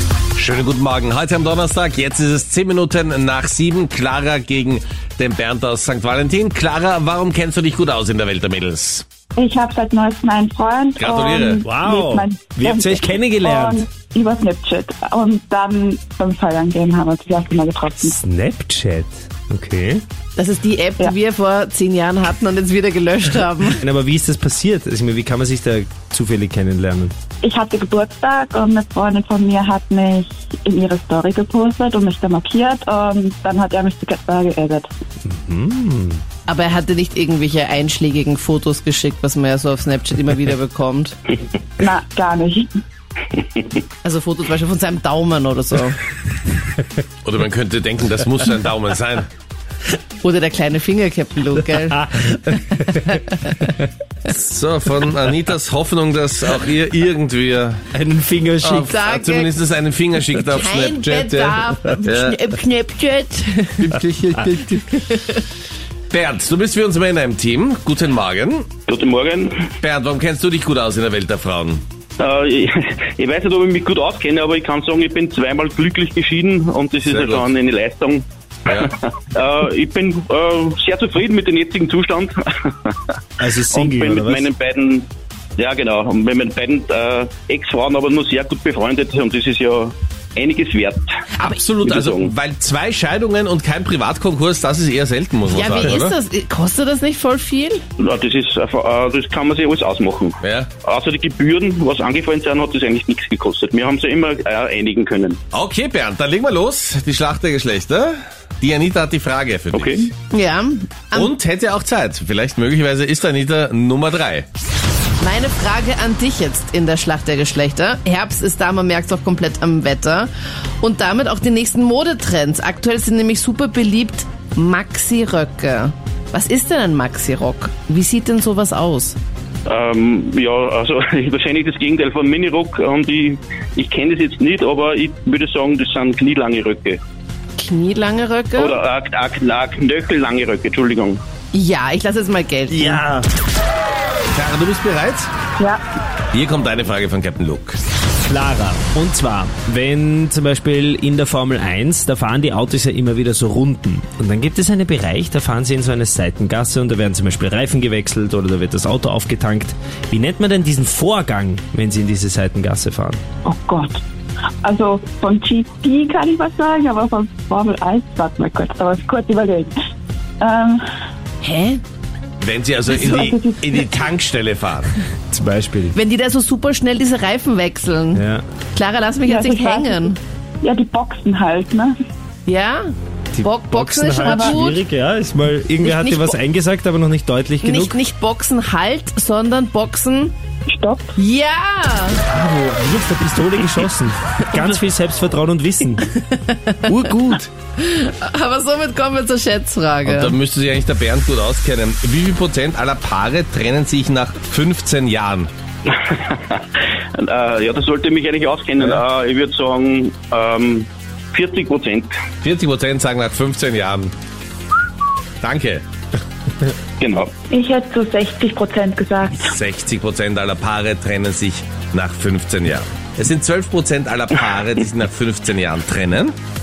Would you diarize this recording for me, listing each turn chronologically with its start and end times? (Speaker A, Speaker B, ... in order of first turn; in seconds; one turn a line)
Speaker A: 0.3-9.1
Speaker B: 9.3-18.1
Speaker A: 11.0-11.6
Speaker C: 11.6-13.8
Speaker C: 18.0-20.0
Speaker D: 20.4-23.8
Speaker C: 23.8-27.1
Speaker B: 27.4-34.9
Speaker C: 35.3-36.2
Speaker D: 36.5-41.2
Speaker B: 41.8-42.7
Speaker D: 44.0-46.0
Speaker A: 47.2-49.3
Speaker D: 50.2-52.0
Speaker C: 51.9-53.8
Speaker A: 54.3-57.8
Speaker C: 57.9-58.9
Speaker D: 58.6-59.5
Speaker A: 58.7-62.4
Speaker D: 60.5-65.4
Speaker C: 63.9-64.7
Speaker A: 66.1-68.7
Speaker E: 68.9-69.6
Speaker A: 69.8-71.8
Speaker E: 72.2-83.1
Speaker A: 77.0-77.5
Speaker C: 83.4-84.5
Speaker E: 83.7-91.0
Speaker A: 91.4-96.1
Speaker E: 91.8-92.3
Speaker D: 95.5-97.8
Speaker E: 98.0-105.4
Speaker A: 100.4-100.7
Speaker A: 105.5-110.1
Speaker E: 109.7-110.1
Speaker D: 110.3-111.3
Speaker A: 111.1-114.5
Speaker D: 115.2-120.3
Speaker D: 120.8-129.2
Speaker E: 129.7-137.0
Speaker D: 137.6-138.8
Speaker E: 138.6-141.2
Speaker D: 141.5-143.0
Speaker C: 142.7-143.3
Speaker A: 144.3-145.3
Speaker A: 146.3-147.8
Speaker C: 148.2-163.2
Speaker B: 163.4-164.0
Speaker B: 164.6-169.7
Speaker B: 170.4-170.8
Speaker D: 171.4-171.8
Speaker A: 172.4-174.9
Speaker B: 172.9-173.9
Speaker C: 175.3-175.9
Speaker D: 175.9-180.2
Speaker C: 178.1-178.4
Speaker B: 179.2-180.1
Speaker B: 180.6-181.9
Speaker D: 182.4-184.8
Speaker C: 183.3-187.9
Speaker B: 184.2-184.5
Speaker D: 185.8-186.4
Speaker D: 187.6-190.3
Speaker B: 190.7-191.1
Speaker D: 191.2-192.2
Speaker C: 192.3-196.1
Speaker D: 196.3-196.9
Speaker A: 196.9-197.5
Speaker D: 197.8-200.3
Speaker A: 200.1-205.5
Speaker E: 205.9-206.6
Speaker E: 207.1-212.1
Speaker A: 212.4-214.1
Speaker A: 215.4-215.8
Speaker E: 217.0-217.3
Speaker B: 217.5-219.5
Speaker A: 219.5-226.4